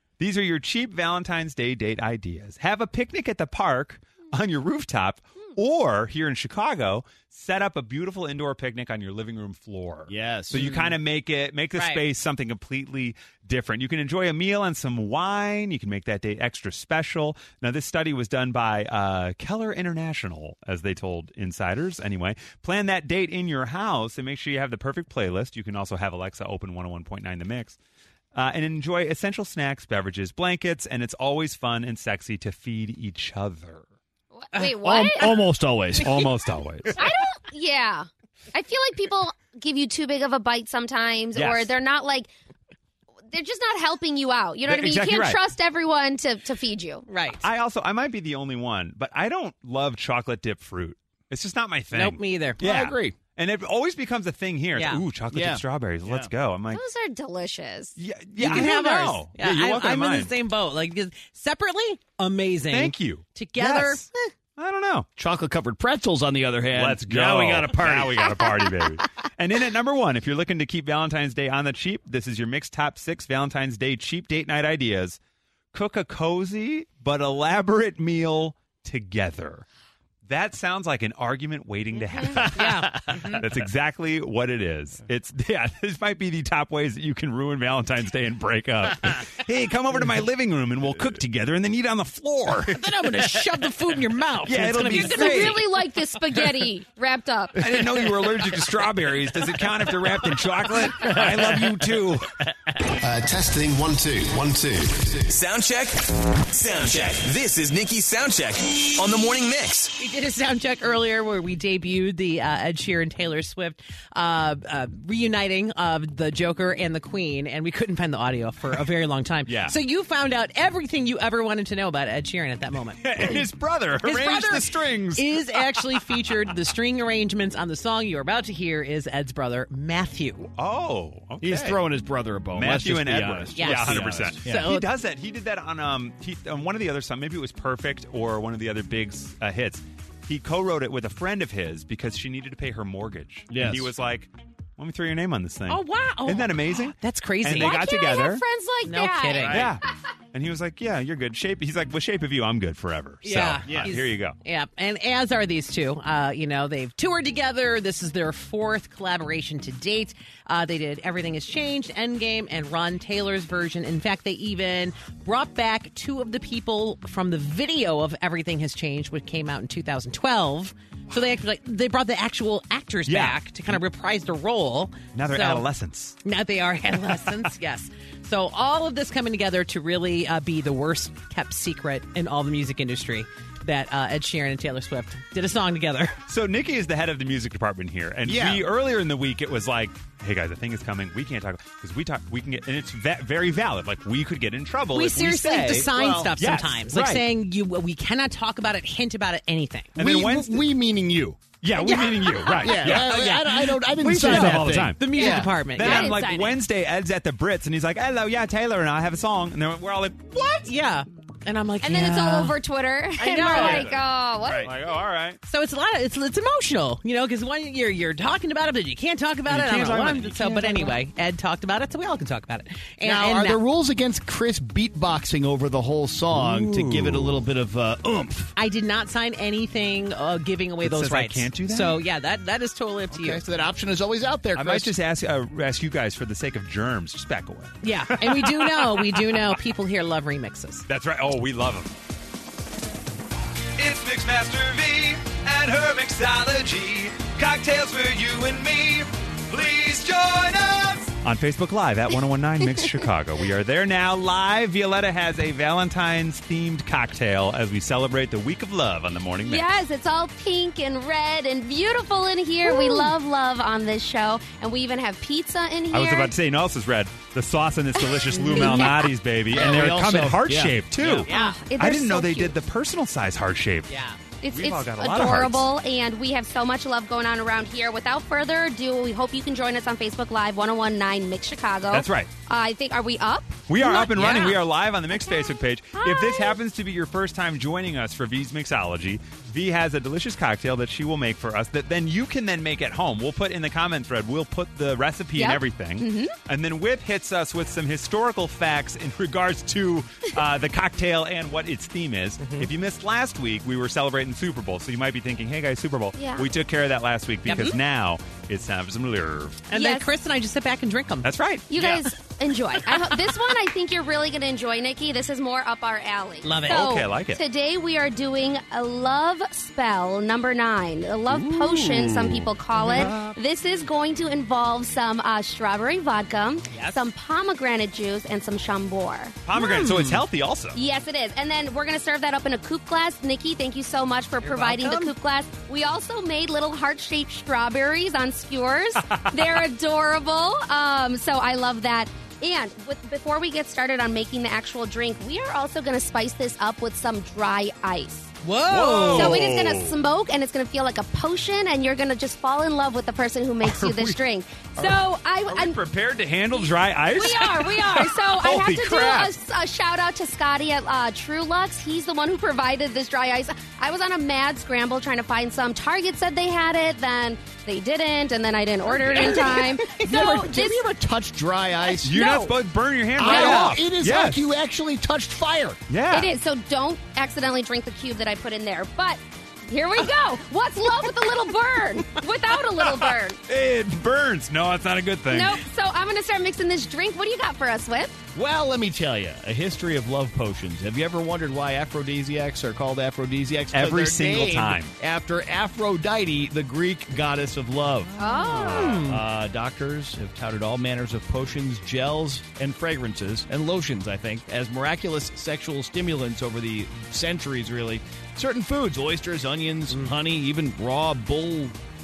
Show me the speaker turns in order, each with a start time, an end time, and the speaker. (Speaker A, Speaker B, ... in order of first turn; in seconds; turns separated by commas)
Speaker A: 0.2-27.8, Speaker B: 10.1-10.8, Speaker C: 11.8-12.0, Speaker A: 28.3-33.9, Speaker D: 34.3-35.4, Speaker B: 34.6-36.3, Speaker A: 36.0-37.0, Speaker D: 37.0-42.3, Speaker A: 41.4-41.7, Speaker D: 43.3-47.1, Speaker A: 44.6-45.4, Speaker C: 47.1-47.4, Speaker A: 47.4-56.8, Speaker C: 51.9-52.6, Speaker B: 52.6-53.2, Speaker C: 54.8-55.0, Speaker B: 55.3-56.3, Speaker D: 56.7-58.0, Speaker A: 58.0-60.3, Speaker C: 58.4-64.1, Speaker A: 62.7-64.0, Speaker A: 64.6-65.1, Speaker B: 65.2-68.4, Speaker A: 66.7-75.2, Speaker A: 75.7-79.7, Speaker A: 80.3-92.8, Speaker D: 82.0-82.4, Speaker C: 82.5-83.4, Speaker B: 82.7-83.4, Speaker C: 92.7-95.7, Speaker A: 94.4-95.6, Speaker D: 94.9-97.8, Speaker A: 97.6-102.4, Speaker B: 101.0-101.7, Speaker E: 102.9-105.3, Speaker F: 105.3-109.9, Speaker C: 110.0-123.5, Speaker A: 119.5-119.8, Speaker A: 123.0-125.8, Speaker C: 124.0-130.5, Speaker A: 130.6-131.8, Speaker B: 131.4-134.7, Speaker A: 132.5-148.4, Speaker C: 133.6-134.9, Speaker B: 143.5-143.9, Speaker C: 145.7-147.8, Speaker D: 147.6-149.7, Speaker C: 148.8-149.6, Speaker B: 149.3-149.7, Speaker A: 149.5-149.8, Speaker A: 150.3-154.4, Speaker C: 153.2-175.6, Speaker B: 153.7-154.0, Speaker A: 173.1-173.8, Speaker A: 175.2-176.2, Speaker C: 176.2-186.2, Speaker A: 186.3-197.2, Speaker B: 188.3-188.7, Speaker C: 194.9-199.9, Speaker B: 195.7-196.3, Speaker A: 199.9-200.7, Speaker B: 200.0-201.4, Speaker A: 201.6-203.4, Speaker D: 201.8-202.7, Speaker B: 202.6-205.6, Speaker C: 202.8-203.5, Speaker A: 204.0-205.1, Speaker C: 204.2-206.5, Speaker D: 205.2-206.5, Speaker A: 205.7-210.4, Speaker C: 210.6-212.6, Speaker D: 211.8-214.7, Speaker C: 213.2-213.9, Speaker A: 213.5-215.4, Speaker B: 214.4-214.7, Speaker C: 215.5-223.6, Speaker A: 219.5-221.0, Speaker B: 223.0-228.6, Speaker A: 226.3-227.4, Speaker C: 228.6-233.4, Speaker A: 230.8-232.0, Speaker B: 233.1-234.9, Speaker A: 234.6-239.2, Speaker C: 237.8-240.8, Speaker A: 240.9-242.0, Speaker A: 243.8-259.6, Speaker D: 259.4-266.3, Speaker A: 265.9-273.9, Speaker D: 268.0-269.1, Speaker B: 269.5-271.3, Speaker C: 271.3-271.6, Speaker D: 271.3-272.6, Speaker C: 273.9-274.2, Speaker D: 274.4-283.6, Speaker A: 274.5-275.7, Speaker A: 281.9-282.3, Speaker A: 283.7-309.6, Speaker C: 283.8-284.6, Speaker D: 286.0-286.6, Speaker D: 295.4-296.4, Speaker C: 302.4-302.7, Speaker D: 306.1-306.5, Speaker C: 307.4-307.8, Speaker C: 309.7-311.3, Speaker D: 309.7-310.1, Speaker A: 311.2-312.1, Speaker D: 311.7-329.4, Speaker C: 312.8-313.5, Speaker C: 316.4-316.9, Speaker A: 316.7-317.4, Speaker B: 321.6-322.4, Speaker C: 322.8-323.1, Speaker A: 322.9-323.4, Speaker C: 326.7-327.1, Speaker A: 329.5-330.8, Speaker C: 329.5-330.2, Speaker D: 330.7-348.3, Speaker C: 334.4-335.1, Speaker A: 339.0-339.6, Speaker C: 348.4-349.5, Speaker A: 348.7-350.0, Speaker D: 349.1-355.8, Speaker A: 353.6-354.2, Speaker A: 354.8-359.3, Speaker D: 357.1-370.8, Speaker A: 369.0-369.5, Speaker C: 369.1-370.3, Speaker B: 370.0-372.2, Speaker A: 372.0-374.5, Speaker D: 372.1-372.5, Speaker B: 373.2-375.8, Speaker D: 373.3-373.6, Speaker A: 375.9-376.3, Speaker D: 376.1-383.4, Speaker A: 382.8-385.6, Speaker D: 385.3-388.2, Speaker B: 388.4-411.8, Speaker A: 393.7-394.9, Speaker D: 398.2-399.1, Speaker C: 398.5-399.2